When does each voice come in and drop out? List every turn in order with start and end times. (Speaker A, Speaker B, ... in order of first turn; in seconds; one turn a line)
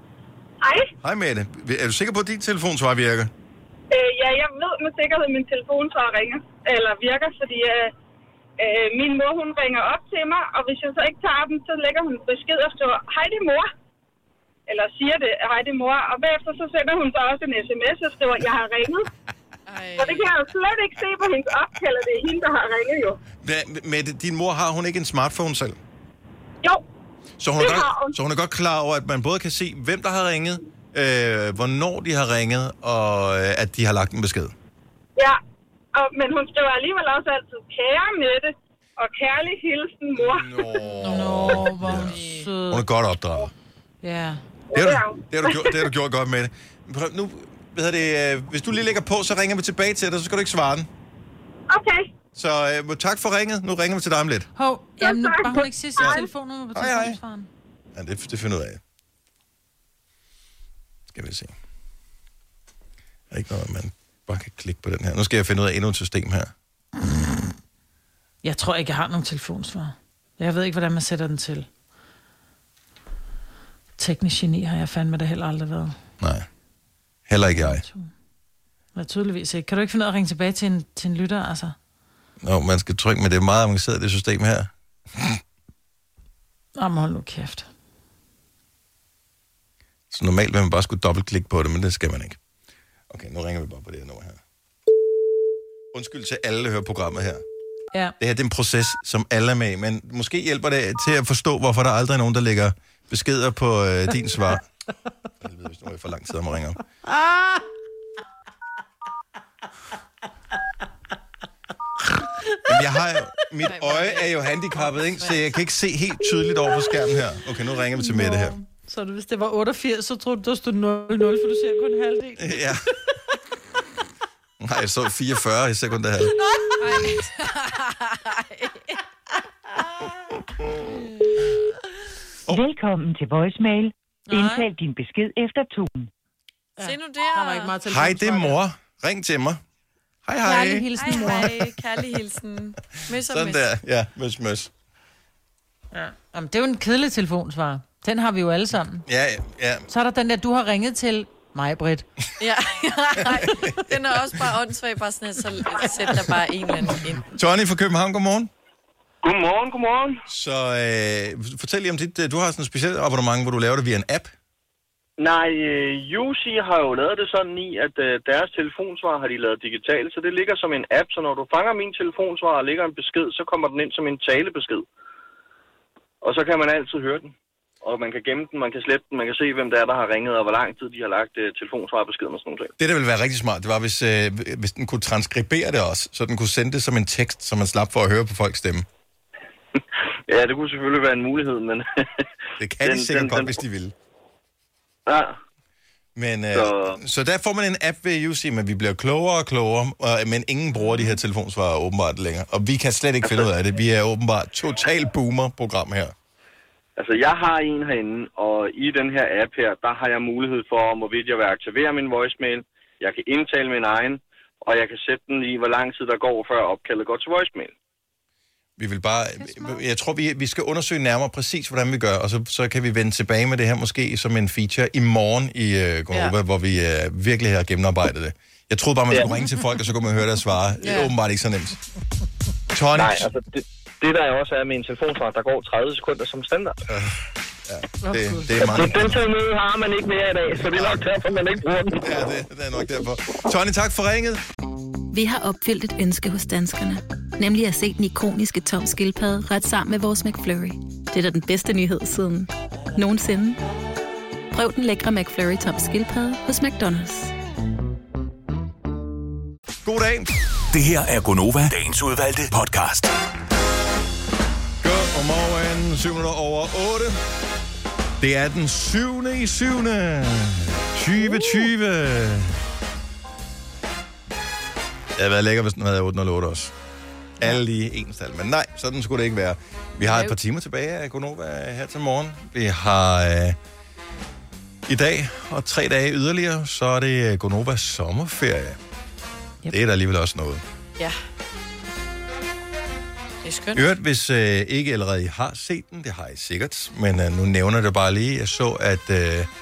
Speaker A: 0.6-0.9
Speaker B: 1.0-3.3
Speaker A: 3.9-7.9
Speaker A: 8.6-13.7
Speaker A: 14.7-19.1
Speaker C: 19.7-20.3
Speaker A: 20.0-23.2
Speaker B: 23.4-25.8
Speaker B: 27.4-34.5
Speaker A: 27.6-28.1
Speaker A: 36.0-40.8
Speaker B: 40.1-43.5
Speaker C: 41.0-42.5
Speaker D: 41.0-42.9
Speaker D: 44.0-44.4
Speaker A: 44.7-45.9
Speaker B: 44.7-50.9
Speaker A: 51.7-52.1
Speaker B: 52.4-54.5
Speaker D: 54.6-57.5
Speaker A: 55.0-56.3
Speaker B: 56.8-57.2
Speaker B: 58.0-58.8
Speaker B: 61.1-61.5
Speaker B: 63.3-66.5
Speaker D: 68.4-71.7
Speaker D: 74.0-76.0
Speaker B: 76.2-76.5
Speaker B: 77.3-77.8
Speaker D: 77.5-78.1
Speaker D: 79.0-81.8
Speaker B: 82.4-85.4
Speaker D: 86.8-87.7
Speaker B: 90.1-92.4
Speaker B: 93.1-94.4
Speaker B: 95.9-97.4
Speaker B: 98.2-104.7
Speaker B: 105.4-106.8
Speaker B: 112.7-118.6
Speaker C: 113.6-114.3
Speaker C: 114.9-115.4
Speaker D: 117.9-122.7
Speaker B: 122.4-122.8
Speaker B: 124.6-126.4
Speaker C: 126.8-129.0
Speaker E: 132.5-136.1
Speaker D: 134.3-134.7
Speaker D: 136.8-138.6
Speaker C: 136.8-137.7
Speaker B: 137.8-139.6
Speaker B: 140.2-141.5
Speaker D: 140.4-141.7
Speaker C: 141.0-143.6
Speaker B: 143.1-144.7
Speaker D: 145.9-149.1
Speaker B: 149.1-149.8
Speaker D: 149.9-152.1
Speaker C: 152.4-157.3
Speaker B: 153.2-153.7
Speaker B: 157.3-158.5
Speaker F: 159.2-160.2
Speaker B: 160.3-164.3
Speaker F: 165.2-174.8
Speaker F: 176.2-182.7
Speaker B: 182.8-188.9
Speaker F: 190.3-192.2
Speaker B: 192.6-193.9
Speaker F: 192.8-193.6
Speaker F: 195.1-195.4
Speaker B: 196.2-206.1
Speaker F: 196.5-197.0
Speaker F: 207.0-217.7
Speaker B: 218.8-231.8
Speaker D: 219.4-219.8
Speaker F: 229.1-229.4
Speaker C: 230.8-231.1
Speaker B: 232.7-233.3
Speaker F: 232.9-236.8
Speaker B: 236.9-239.2
Speaker D: 238.0-238.9
Speaker F: 238.6-242.1
Speaker B: 240.6-241.1
Speaker B: 242.0-244.4
Speaker G: 245.1-253.6
Speaker G: 254.5-257.3
Speaker B: 259.8-260.3
Speaker H: 260.7-263.1
Speaker B: 264.8-267.2
Speaker B: 268.2-272.6
Speaker B: 275.1-276.7
Speaker B: 277.4-283.6
Speaker B: 284.9-288.8
Speaker B: 289.7-290.6
Speaker C: 293.4-293.9
Speaker B: 293.8-299.5